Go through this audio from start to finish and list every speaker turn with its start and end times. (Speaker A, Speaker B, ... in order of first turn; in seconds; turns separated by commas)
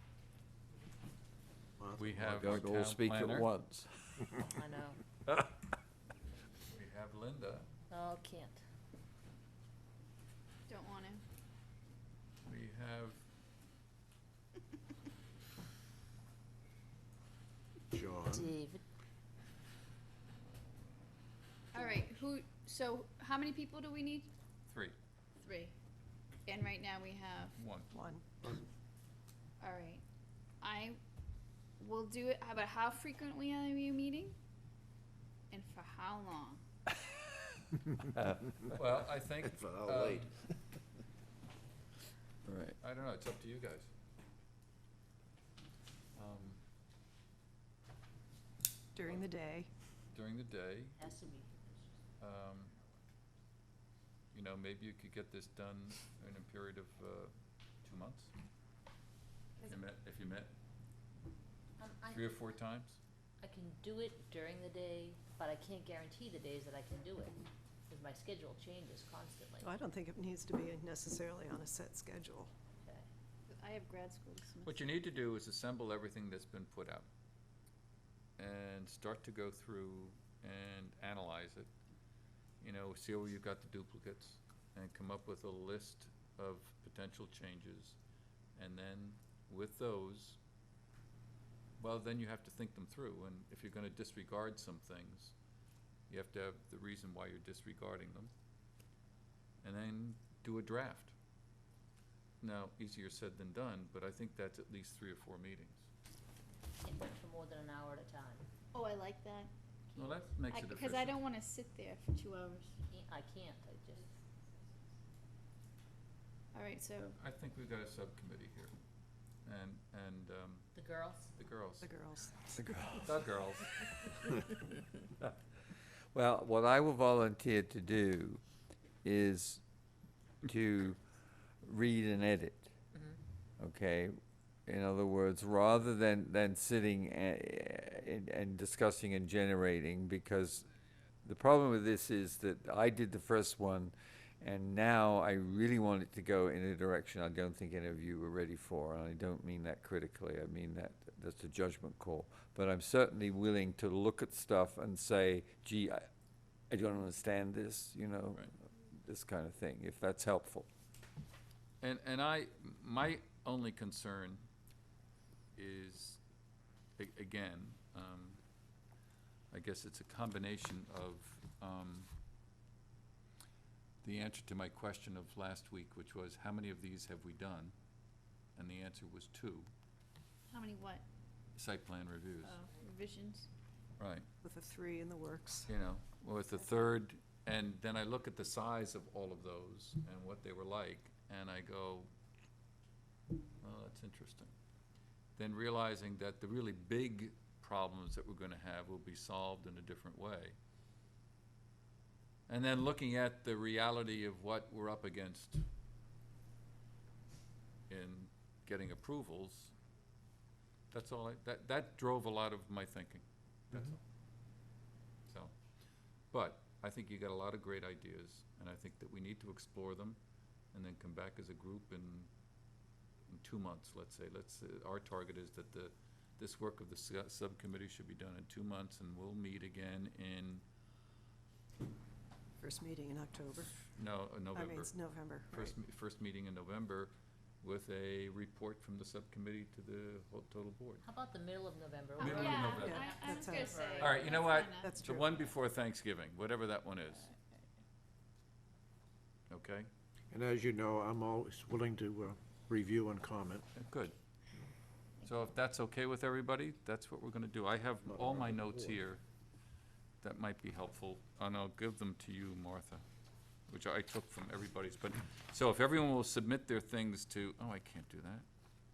Speaker A: 1.8-2.4, Speaker B: 1.9-3.5, Speaker C: 2.2-4.4, Speaker D: 4.4-5.0, Speaker B: 6.7-7.7, Speaker D: 7.9-8.6, Speaker E: 10.7-11.2, Speaker B: 12.4-13.2, Speaker A: 17.9-18.5, Speaker D: 18.2-18.8, Speaker E: 21.7-24.3, Speaker B: 24.7-24.9, Speaker E: 25.4-25.7, Speaker E: 26.4-27.6, Speaker B: 27.6-27.9, Speaker F: 27.9-28.4, Speaker E: 29.6-30.0, Speaker E: 30.6-31.0, Speaker E: 31.8-34.4, Speaker E: 35.5-36.6, Speaker B: 38.7-40.3, Speaker A: 39.5-40.4, Speaker C: 42.4-42.8, Speaker B: 42.8-43.9, Speaker B: 46.1-46.6, Speaker F: 48.9-49.7, Speaker B: 50.1-51.0, Speaker D: 51.0-51.9, Speaker B: 52.2-52.7, Speaker B: 54.3-58.3, Speaker B: 59.6-60.5, Speaker D: 61.8-62.3, Speaker B: 62.0-63.0, Speaker D: 63.4-69.7, Speaker F: 69.6-72.5, Speaker E: 73.5-74.8, Speaker B: 74.6-77.1, Speaker B: 78.4-81.7, Speaker B: 82.6-88.0, Speaker B: 88.5-90.4, Speaker B: 91.8-95.3, Speaker B: 96.1-98.3, Speaker B: 99.6-101.1, Speaker B: 102.4-105.9, Speaker D: 106.8-108.5, Speaker E: 108.7-109.5, Speaker D: 109.9-110.3, Speaker B: 109.9-111.2, Speaker E: 110.5-112.8, Speaker D: 112.9-114.1, Speaker E: 116.5-117.2, Speaker B: 117.2-118.7, Speaker B: 119.4-120.7, Speaker D: 120.7-121.3, Speaker B: 121.3-121.9, Speaker F: 121.8-122.9, Speaker C: 122.6-123.1, Speaker B: 123.0-124.1, Speaker C: 126.1-128.4, Speaker C: 129.0-129.6, Speaker C: 130.4-131.0, Speaker C: 131.6-132.7, Speaker C: 133.6-134.1, Speaker C: 134.7-140.7, Speaker C: 141.2-156.1, Speaker C: 156.7-160.7, Speaker B: 161.8-164.5, Speaker B: 165.6-166.2, Speaker B: 167.0-168.4, Speaker B: 169.5-172.1, Speaker B: 174.0-177.7, Speaker B: 178.6-179.7, Speaker E: 180.5-181.0, Speaker B: 181.6-182.6, Speaker E: 182.4-183.5, Speaker B: 184.0-184.2, Speaker F: 184.4-185.7, Speaker B: 185.7-192.1, Speaker B: 193.6-194.5, Speaker B: 195.3-200.6, Speaker B: 202.5-205.6, Speaker B: 207.9-209.7, Speaker B: 210.9-214.0, Speaker B: 215.3-215.6, Speaker B: 216.3-220.2, Speaker B: 220.7-222.3, Speaker B: 223.3-230.6, Speaker F: 232.6-233.8, Speaker B: 233.9-241.0, Speaker F: 234.5-235.8, Speaker D: 241.0-244.2, Speaker B: 242.2-243.1, Speaker E: 242.2-244.9, Speaker F: 242.8-243.7, Speaker B: 244.0-247.3, Speaker F: 244.8-245.5, Speaker B: 249.5-249.9, Speaker A: 250.3-253.6, Speaker B: 253.7-254.1, Speaker B: 255.2-259.2, Speaker A: 258.0-259.0, Speaker B: 260.2-263.0, Speaker B: 263.7-268.4